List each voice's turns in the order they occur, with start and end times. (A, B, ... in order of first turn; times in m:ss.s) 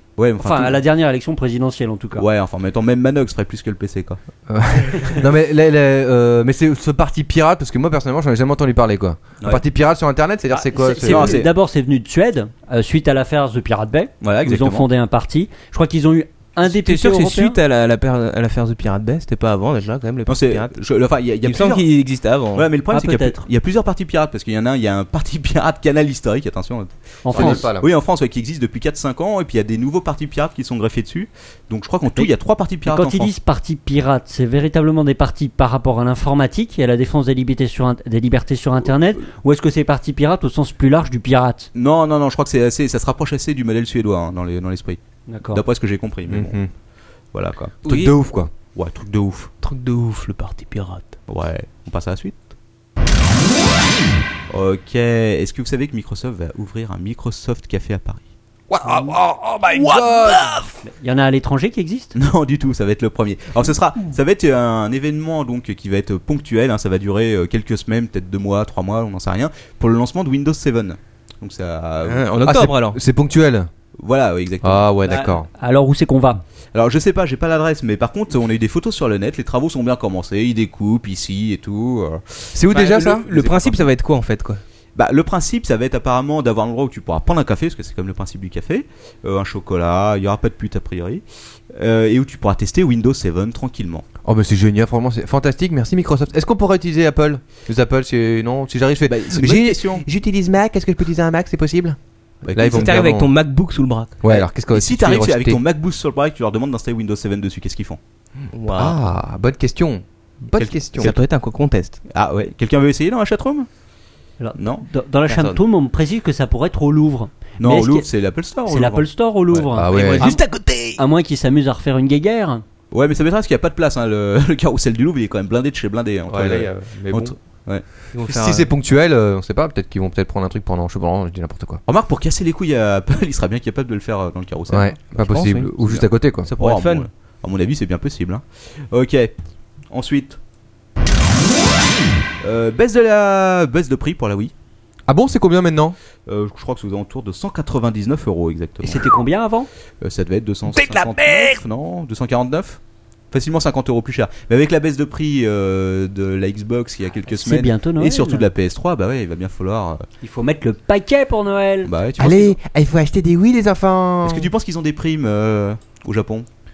0:00.2-0:00.8 A
0:00.4-0:02.2 B
0:02.2-0:04.2 A
0:04.5-0:11.4 C
0:10.5-0:17.6 B
0:11.0-0:11.5 A
0:14.2-0:14.9 A
0:16.6-0:20.8 D
0:20.3-0:21.9 A
0:21.4-0:22.7 D
0:22.5-0:33.3 A
0:22.9-0:23.4 B
0:27.2-0:27.7 B
0:27.3-0:27.9 C
0:32.8-0:41.7 B
0:41.7-0:45.0 A
0:45.3-0:45.6 B
0:45.5-0:46.6 A
0:46.3-0:46.7 C
0:47.3-0:47.8 A
0:47.8-0:48.1 D
0:47.8-0:48.5 C
0:48.7-0:49.5 A
0:49.6-0:51.2 D
0:51.3-0:52.4 A
0:54.5-0:58.2 A
0:58.7-1:00.7 C
0:58.8-0:59.1 B
0:59.8-1:00.6 D
1:00.8-1:02.1 B
1:02.1-1:12.4 A
1:12.0-1:13.0 D
1:12.4-1:13.7 C
1:14.0-1:14.9 A
1:14.6-1:15.5 C
1:15.0-1:16.4 B
1:16.7-1:23.9 A
1:22.5-1:23.2 C
1:22.7-1:24.6 D
1:24.9-1:34.0 A
1:34.2-1:42.0 C
1:39.1-1:40.0 A
1:42.4-1:43.1 A
1:42.5-1:43.3 C
1:42.7-1:44.2 D
1:44.2-1:45.6 C
1:44.2-1:48.0 A
1:48.5-1:49.0 D
1:48.7-1:51.1 C
1:50.6-1:51.2 A
1:51.0-1:52.0 D
1:52.1-1:53.7 A
1:54.4-1:58.1 B
1:54.6-1:54.8 A
1:55.3-1:55.6 D
1:57.6-1:59.6 A
1:58.7-2:02.6 B
1:59.7-2:00.3 C
1:59.9-2:01.0 D
2:02.9-2:07.8 A
2:06.3-2:07.3 C
2:08.1-2:08.7 D
2:08.2-2:11.8 C
2:11.9-2:15.0 A
2:14.7-2:16.5 C
2:15.2-2:15.7 D
2:15.8-2:16.0 A
2:16.4-2:17.1 D
2:16.6-2:19.3 A
2:19.9-2:20.4 A
2:22.4-2:24.5 A
2:25.1-2:26.0 C
2:26.2-2:29.1 A
2:28.8-2:29.7 B
2:30.0-2:32.8 A
2:33.3-2:40.0 A
2:37.3-2:38.5 B
2:40.2-2:41.9 B
2:41.8-2:42.6 A
2:42.2-2:44.5 C
2:44.2-2:46.5 A